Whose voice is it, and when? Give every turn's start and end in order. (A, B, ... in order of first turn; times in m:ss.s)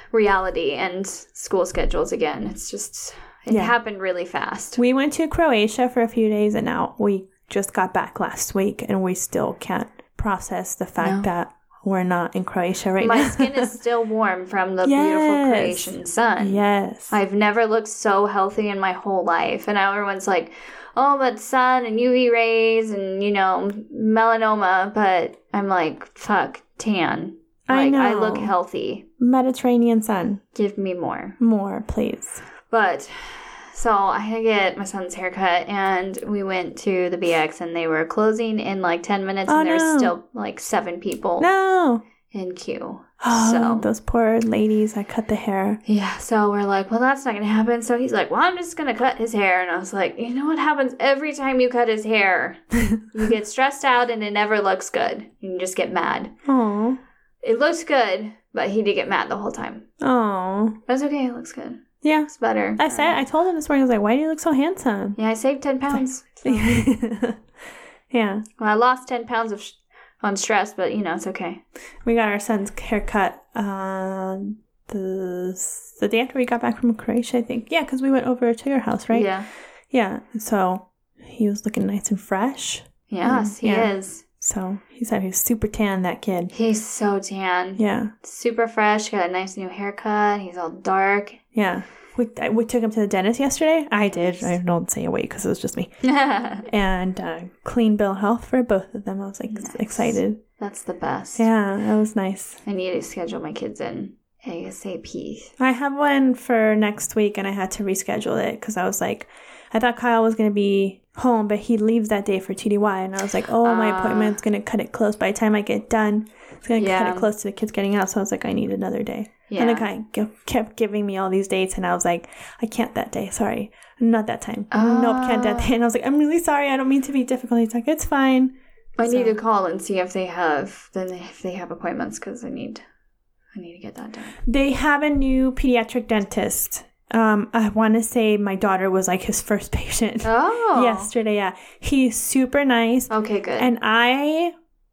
0:00.1-0:04.8 A
0:04.8-0:13.7 B
0:11.0-0:11.3 A
0:13.0-0:29.0 A
0:14.8-0:17.2 B
0:27.7-0:28.5 B
0:29.2-0:30.4 B
0:30.6-0:31.4 A
0:31.4-0:32.4 B
0:32.7-0:41.5 A
0:39.5-0:40.1 B
0:41.4-0:42.0 B
0:42.3-0:43.9 A
0:43.2-0:45.8 B
0:45.9-0:52.6 A
0:53.1-0:56.3 A
0:56.4-0:57.0 B
0:57.4-0:59.8 A
1:00.0-1:00.8 B
1:00.9-1:03.2 A
1:02.0-1:05.2 B
1:05.2-1:06.9 A
1:05.9-1:07.4 B
1:08.1-1:08.4 B
1:08.6-1:11.6 A
1:12.0-1:19.3 B
1:19.1-1:19.5 A
1:19.9-1:26.5 B
1:23.1-1:24.2 A
1:26.5-1:31.4 A
1:27.8-1:28.1 B
1:31.5-1:35.9 B
1:34.1-1:34.5 A
1:36.0-1:36.7 A
1:36.6-1:40.4 B
1:39.5-1:41.4 A
1:41.4-1:42.6 B
1:42.6-1:45.5 A
1:45.6-2:09.4 B
1:53.6-1:54.4 A
1:56.8-1:57.3 A
1:59.5-1:59.9 A
2:04.7-2:05.7 A
2:09.0-2:12.8 A
2:13.6-2:14.4 A
2:14.4-2:24.5 B
2:20.2-2:21.1 A
2:23.1-2:23.7 A